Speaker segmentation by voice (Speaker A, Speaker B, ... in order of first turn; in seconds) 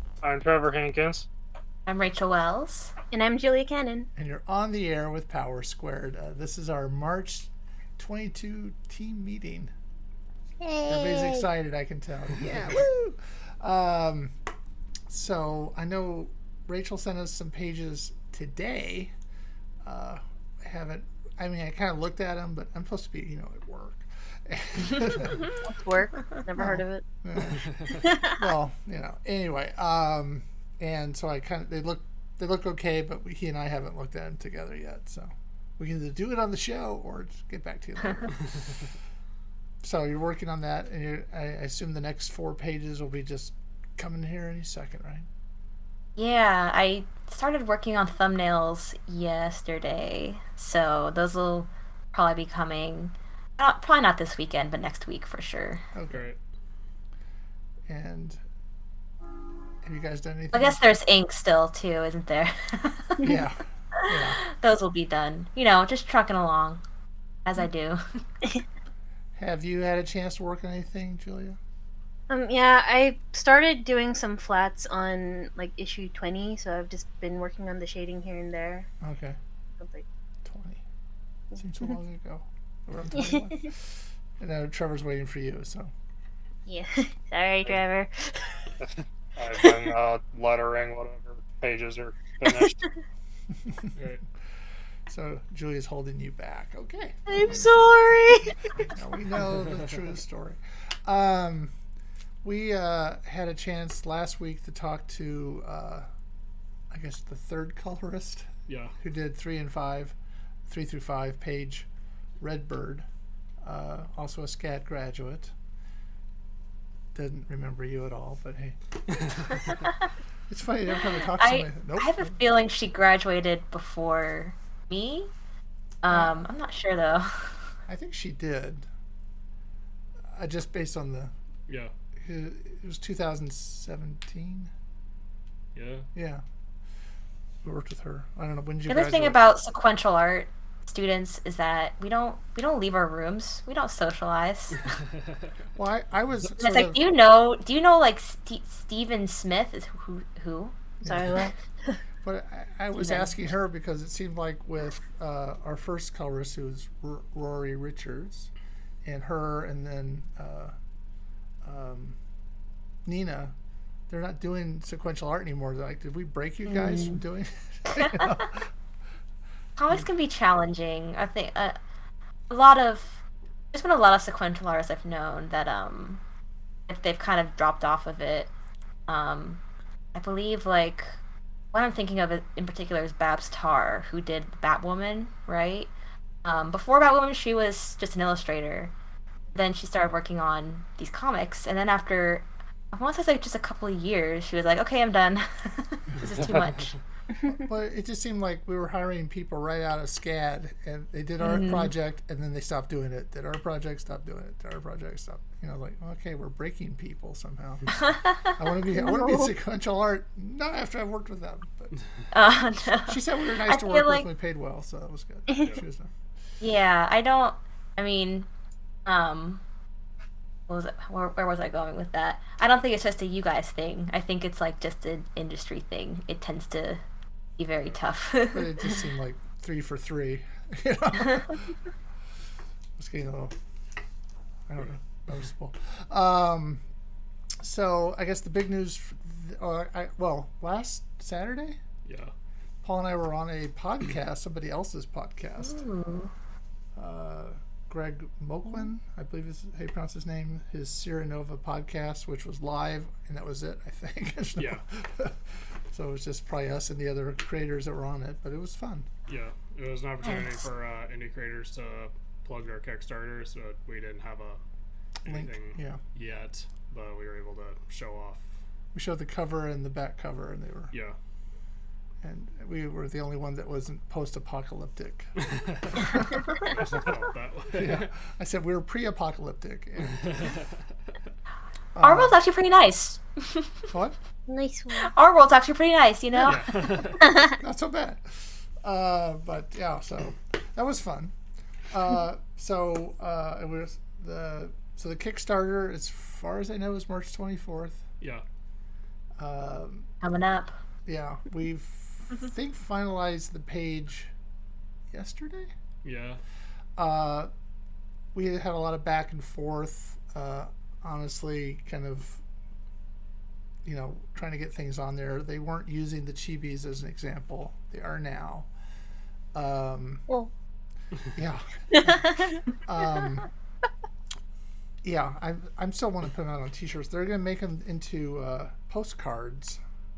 Speaker A: 0.2-1.2, 88.8-92.8
Speaker B: 1.9-2.9, 46.1-55.8, 60.5-63.4, 64.0-66.8, 67.4-68.0, 121.3-125.3, 126.0-127.5, 138.9-144.8, 146.6-150.7, 152.9-153.3, 166.7-167.2, 168.0-168.3, 169.8-171.8, 172.5-173.2, 173.7-176.2, 176.9-178.5, 179.1-179.6, 180.1-181.2, 181.7-185.9, 186.4-188.9, 189.5-196.9, 201.4-201.9, 212.3-214.3, 216.6-218.5, 219.0-219.6, 220.7-227.0, 227.6-229.0, 245.6-246.3, 282.0-283.8, 284.9-286.7, 300.2-300.7
Speaker C: 3.1-4.1, 10.6-11.4, 25.6-27.0, 27.9-28.3, 72.3-78.9, 79.8-80.0, 83.2-83.5, 86.7-88.5, 97.3-98.6, 151.0-152.0, 208.9-209.5, 284.5-285.1, 321.9-322.6
Speaker D: 4.2-9.7, 10.8-14.3, 15.1-19.1, 19.8-25.5, 26.5-38.8, 39.8-45.3, 55.9-56.2, 57.9-58.4, 59.8-60.8, 63.2-64.4, 69.3-71.6, 79.0-79.4, 80.4-80.8, 81.5-85.9, 95.1-97.9, 98.8-101.7, 102.4-106.1, 106.9-110.1, 110.7-111.9, 112.4-113.0, 113.6-115.5, 117.1-119.6, 120.5-122.4, 127.9-128.9, 130.3-131.3, 132.2-134.7, 136.1-136.4, 137.6-139.4, 145.7-147.0, 151.0-151.5, 152.2-158.5, 159.0-160.7, 161.6-162.2, 163.0-163.5, 164.1-168.7, 197.5-211.9, 213.1-216.1, 228.5-231.6, 233.0-233.5, 234.7-236.8, 237.6-241.8, 242.8-245.8, 246.9-259.1, 265.2-266.0, 268.9-270.9, 272.2-275.3, 275.9-276.4, 277.7-280.4, 281.9-282.4, 283.9-284.2, 287.5-291.3, 291.9-298.0, 299.4-300.1, 301.1-304.3, 305.1-305.7, 307.0-307.5, 308.3-312.4, 313.8-318.7, 319.5-320.2, 321.3-323.5, 325.0-329.8
Speaker E: 56.1-56.4, 93.9-94.2, 108.7-108.9, 135.7-136.1, 242.0-242.3, 254.6-254.8, 259.3-264.6, 265.2-268.4, 270.9-271.1, 275.4-278.1, 280.1-280.7, 286.4-287.5, 306.0-306.4